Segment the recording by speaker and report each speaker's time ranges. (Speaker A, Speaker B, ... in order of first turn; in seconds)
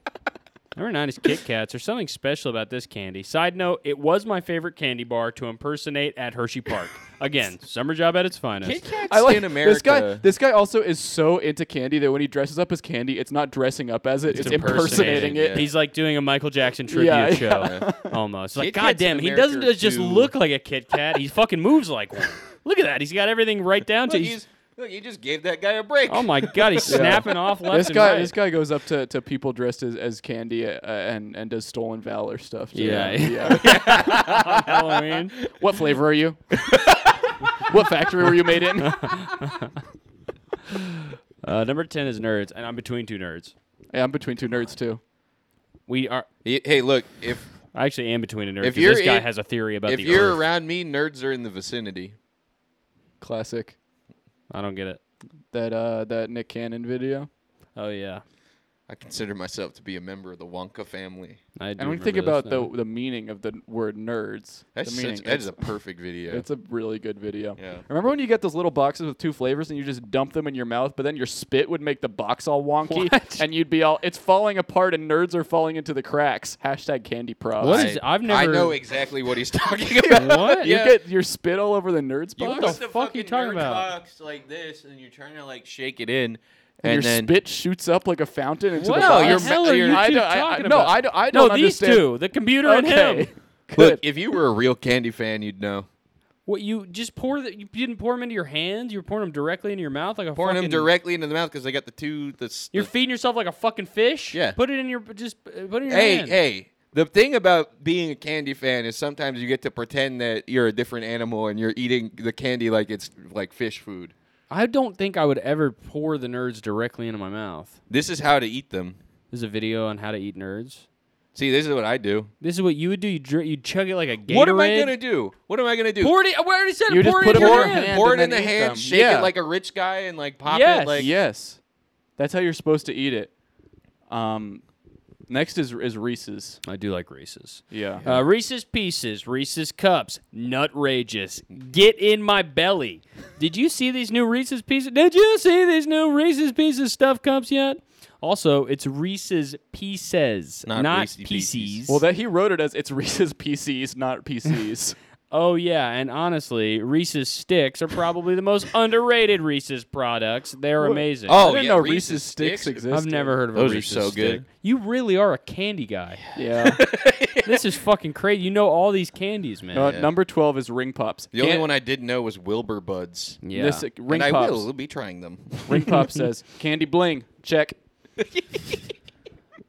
Speaker A: 0.8-8.8, 14.3-24.4, 26.1-28.3, 32.7-35.4, 38.9-39.7, 40.7-43.5, 45.9-46.3, 47.7-50.4, 54.5-55.0, 57.8-58.2, 61.6-62.7, 72.9-73.5, 77.6-78.8, 80.2-80.7, 82.4-83.9, 88.8-93.3, 96.5-100.9, 102.7-106.3, 114.5-117.8, 119.3-120.8, 122.4-124.9, 126.0-127.9, 130.5-131.1, 136.7-152.0, 155.3-161.4, 162.9-166.2, 167.4-169.9, 173.4-173.9
Speaker B: 8.6-10.2, 14.3-15.7, 17.6-17.9, 18.6-20.3, 24.1-27.3, 32.8-34.8, 36.7-37.0, 46.5-47.5, 48.6-49.3, 49.9-52.1, 58.9-61.4, 64.8-66.5, 67.6-67.8, 77.6-81.0, 82.4-87.3, 88.9-90.1, 93.8-95.9, 100.4-102.9, 104.3-104.6, 105.9-114.1, 117.9-119.0, 121.3-122.3, 124.3-126.2, 127.2-131.1, 150.7-151.8, 161.3-162.8, 163.5-164.4, 166.4-167.6, 169.8-170.1, 171.3-173.4, 174.1-176.0, 178.2-178.8
Speaker C: 9.1-15.7, 16.9-18.2, 26.9-34.6, 35.5-39.2, 43.9-45.0, 53.2-53.8, 55.5-57.3, 61.8-65.7, 66.3-77.9, 80.0-82.8, 86.8-92.1, 92.6-94.0, 126.9-129.3, 131.0-131.6, 132.2-133.3, 134.1-134.6, 135.3-136.6, 137.7-138.0, 151.9-155.0, 160.8-163.4, 166.3-166.8, 169.7-171.7, 173.5-174.7, 175.7-177.8